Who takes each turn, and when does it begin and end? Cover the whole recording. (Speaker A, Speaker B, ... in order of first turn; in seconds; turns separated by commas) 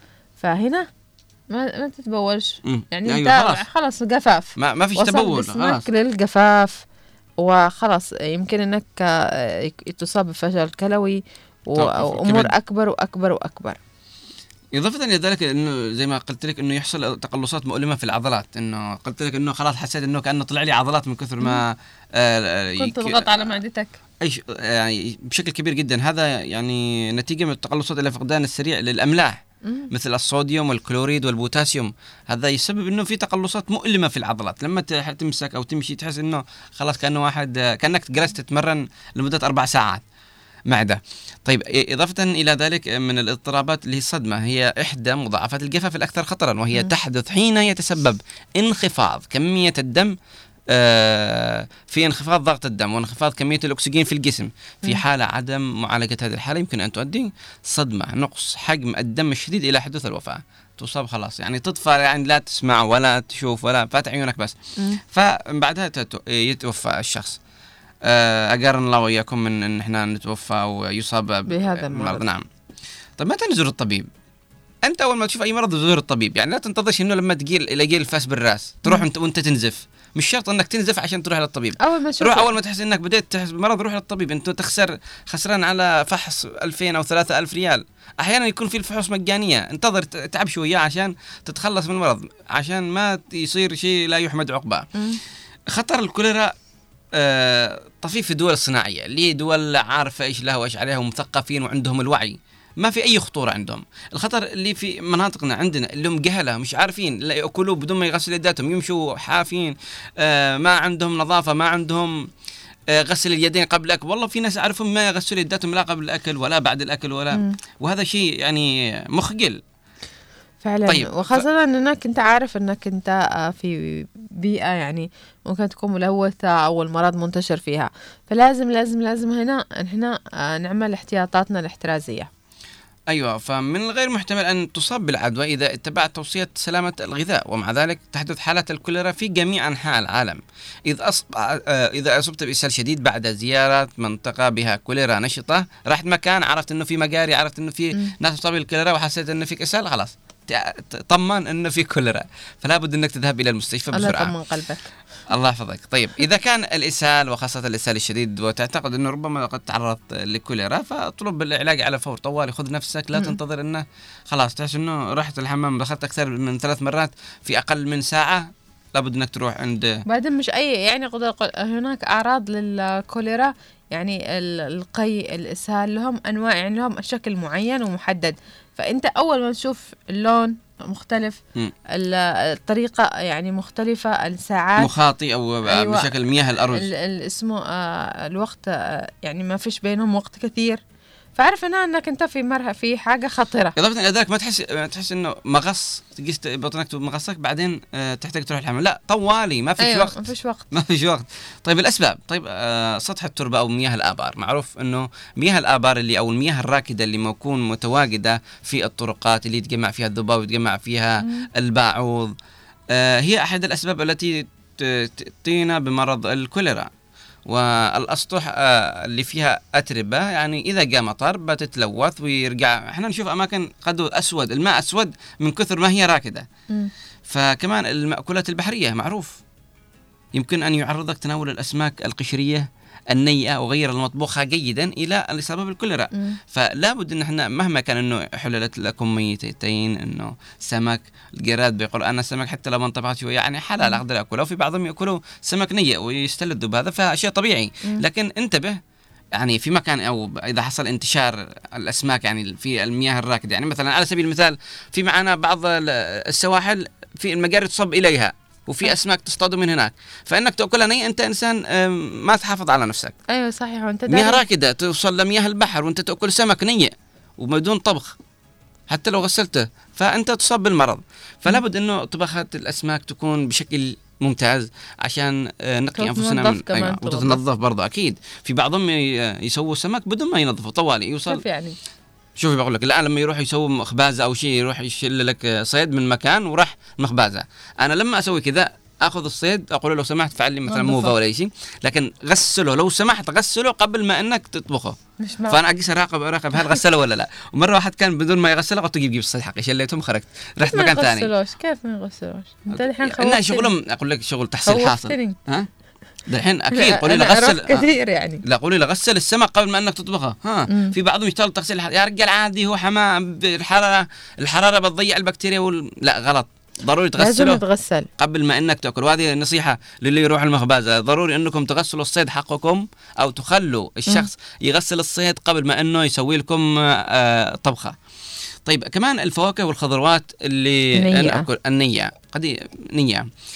Speaker A: 0.4-0.9, Speaker A: 1.5-6.8, Speaker B: 2.6-3.6, Speaker B: 4.6-5.9, Speaker A: 7.4-13.8, Speaker B: 11.8-12.5, Speaker B: 14.7-23.6, Speaker A: 22.8-24.0, Speaker B: 24.2-40.0, Speaker B: 40.7-50.1, Speaker B: 50.7-64.6, Speaker B: 65.1-67.4, Speaker B: 68.0-72.5, Speaker A: 71.5-72.2, Speaker B: 73.2-74.1, Speaker B: 74.8-94.9, Speaker A: 81.8-82.5, Speaker B: 95.7-96.5, Speaker B: 97.2-112.2, Speaker B: 112.9-119.6, Speaker A: 120.6-132.3, Speaker B: 120.9-121.4, Speaker B: 133.1-154.3, Speaker A: 153.9-154.9, Speaker B: 155.3-169.9, Speaker A: 170.1-181.4, Speaker A: 181.9-184.9, Speaker B: 184.8-186.9, Speaker A: 185.7-186.1, Speaker A: 186.8-190.8, Speaker A: 191.4-193.8, Speaker B: 193.8-212.3, Speaker A: 199.8-200.7, Speaker B: 212.9-216.9, Speaker B: 217.5-226.5, Speaker B: 227.3-229.4, Speaker B: 230.3-248.8, Speaker B: 249.3-263.1, Speaker A: 263.3-264.4, Speaker B: 264.1-268.1, Speaker B: 268.9-281.4, Speaker A: 276.0-277.4, Speaker A: 281.3-281.8, Speaker B: 282.4-295.0, Speaker A: 290.7-291.1, Speaker A: 295.2-295.6, Speaker B: 295.5-301.3, Speaker A: 300.6-303.7, Speaker B: 302.7-305.7, Speaker A: 304.6-305.4, Speaker B: 306.3-307.9, Speaker A: 306.7-308.4, Speaker B: 308.4-317.6, Speaker A: 317.2-318.1, Speaker B: 318.2-328.0, Speaker B: 328.7-333.3, Speaker A: 331.0-331.5